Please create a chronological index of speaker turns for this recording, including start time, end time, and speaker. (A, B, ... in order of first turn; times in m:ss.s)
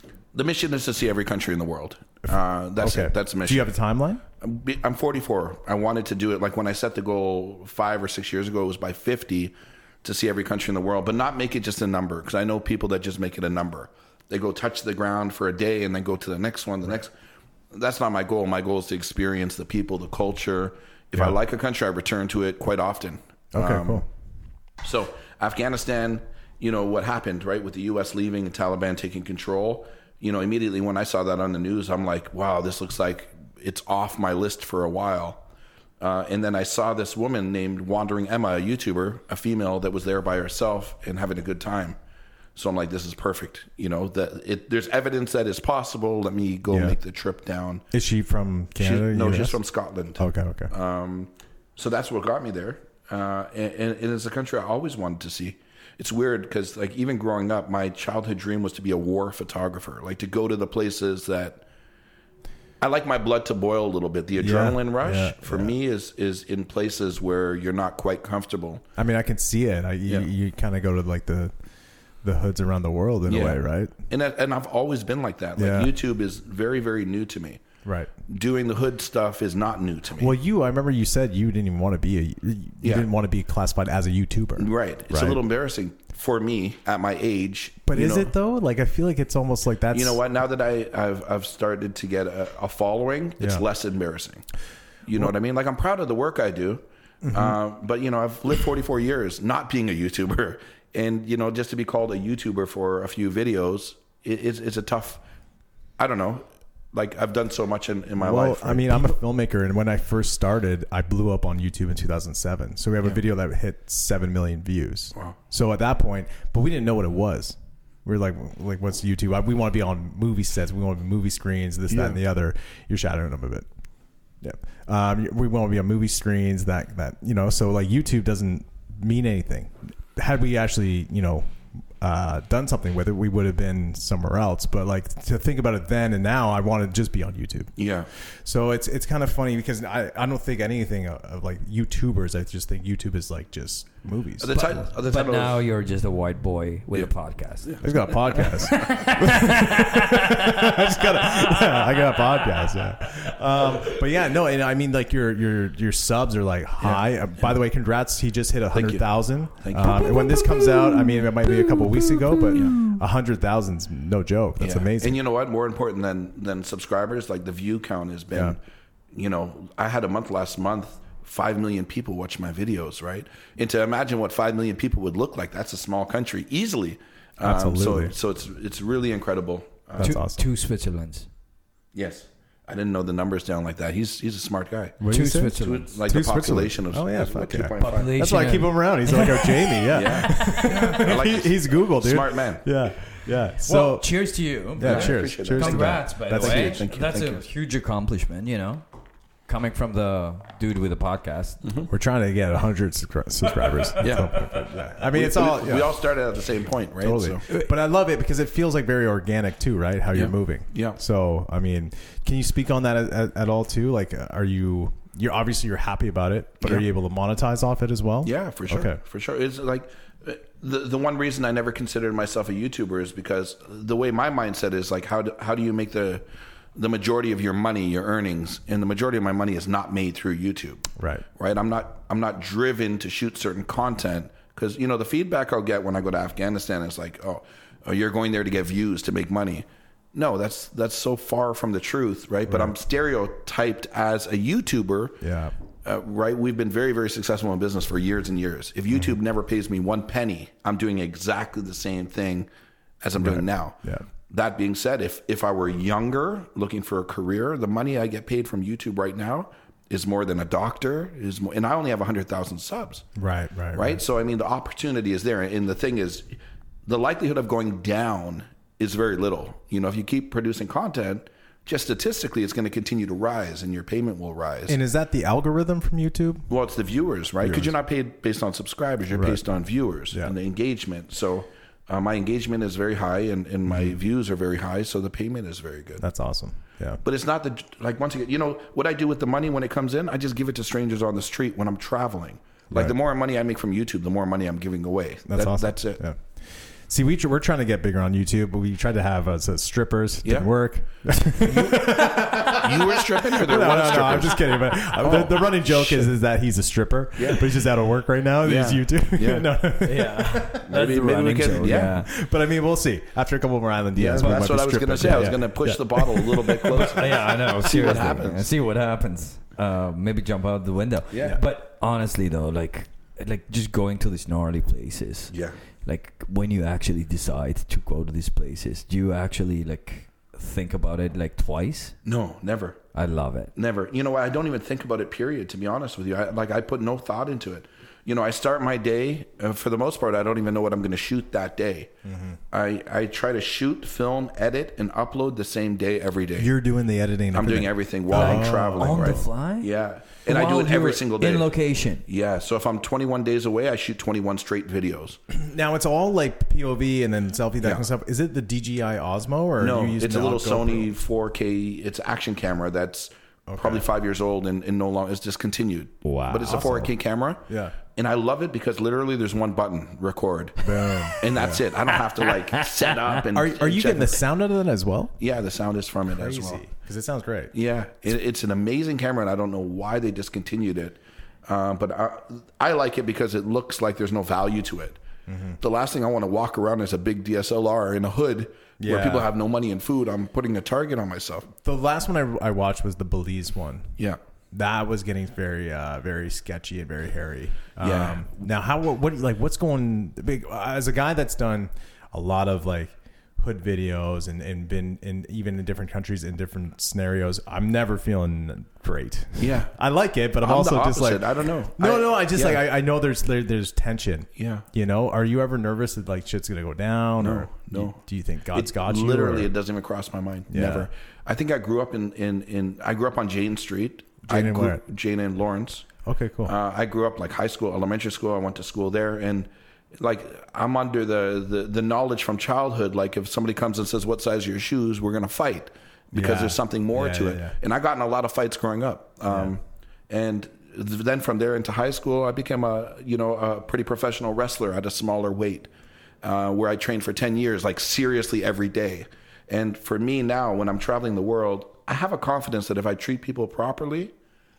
0:00.3-0:03.7 A
0:02.3-0:04.2 B
0:04.4-0:17.1 A
0:17.7-0:24.1 A
0:23.5-0:24.0 B
0:24.8-0:35.4 A
0:36.0-0:42.0 A
0:42.6-0:47.9 A
0:46.7-0:47.0 B
0:47.9-0:49.6 B
0:48.8-1:01.6 A
0:50.2-0:50.7 B
1:02.8-1:08.8 A
1:04.4-1:05.7 B
1:09.0-1:11.5 B
1:12.2-1:13.9 B
1:13.3-1:17.6 A
1:15.6-1:15.9 B
1:17.8-1:18.1 B
1:18.3-1:20.4 A
1:20.2-1:25.4 B
1:22.8-1:23.1 A
1:24.6-1:28.3 A
1:27.9-1:30.2 B
1:29.9-1:34.4 A
1:35.1-1:45.2 A
1:37.2-1:37.6 B
1:46.0-1:49.1 A
1:48.2-2:03.7 B
2:01.9-2:02.2 A
2:04.4-2:24.9 B
2:17.8-2:18.1 A
2:24.4-2:25.6 A
2:24.6-2:31.7 C
2:27.6-2:28.9 A
2:27.8-2:45.2 B
2:36.8-2:37.5 A
2:38.7-2:40.4 A
2:42.5-2:42.8 A
2:44.6-2:48.6 A
2:49.1-3:00.2 A
2:57.4-2:58.2 B
3:00.0-3:00.4 B
3:00.0-3:01.3 C
3:01.9-3:08.2 A
3:05.0-3:14.1 B
3:05.1-3:05.9 C
3:07.8-3:11.1 C
3:09.9-3:12.7 A
3:13.6-3:18.8 C
3:14.8-3:16.8 B
3:14.8-3:17.4 A
3:19.5-3:21.6 C
3:21.6-3:21.9 A
3:21.9-3:26.0 B
3:24.0-3:24.5 C
3:24.0-3:24.5 A
3:25.0-3:27.4 A
3:27.0-3:39.0 B
3:30.1-3:31.0 A
3:38.2-3:46.2 A
3:46.8-4:05.2 A
3:51.0-3:51.2 B
4:02.5-4:02.8 B
4:05.2-4:05.6 B
4:05.8-4:12.5 A
4:13.0-4:13.8 A
4:13.2-4:14.1 B
4:14.3-4:23.1 A
4:23.2-4:24.0 B
4:23.7-4:26.3 A
4:26.9-4:34.8 A
4:34.7-4:36.5 B
4:36.5-4:46.0 A
4:37.4-4:37.7 B
4:39.1-4:39.4 B
4:43.7-4:44.0 B
4:46.0-4:47.0 B
4:47.0-4:56.0 A
4:55.3-5:10.7 B
5:00.2-5:00.5 A
5:01.4-5:06.1 A
5:07.2-5:07.5 A
5:08.4-5:09.5 A
5:09.8-5:12.1 C
5:10.6-5:12.0 A
5:11.7-5:17.1 B
5:14.0-5:18.5 A
5:16.7-5:32.0 C
5:21.1-5:21.4 A
5:25.3-5:25.6 A
5:32.0-5:32.9 A
5:32.9-5:33.5 C
5:33.6-5:41.9 A
5:42.1-5:42.4 B
5:42.5-5:46.5 A
5:46.4-5:49.2 B
5:47.3-5:51.5 A
5:48.1-5:49.7 C
5:50.2-5:52.0 C
5:52.0-5:55.2 A
5:55.3-6:00.9 B
5:59.6-6:14.2 A
6:03.5-6:03.9 B
6:06.0-6:06.7 C
6:06.5-6:06.9 B
6:07.5-6:07.8 B
6:10.6-6:11.6 B
6:12.2-6:12.9 C
6:13.3-6:15.2 B
6:15.2-6:16.6 A
6:16.1-6:17.5 B
6:17.5-6:25.0 A
6:25.3-6:25.6 B
6:25.6-6:31.5 A
6:28.8-6:29.3 B
6:31.6-6:34.0 B
6:34.5-6:59.5 B
6:37.8-6:38.3 A
6:49.4-6:49.7 A
6:50.4-6:52.6 A
6:54.4-6:54.7 A
6:57.2-6:58.0 A
6:58.5-7:05.9 A
7:00.5-7:00.9 B
7:04.3-7:04.8 B
7:06.0-7:06.6 B
7:06.4-7:25.7 A
7:16.1-7:17.6 B
7:26.2-7:34.1 A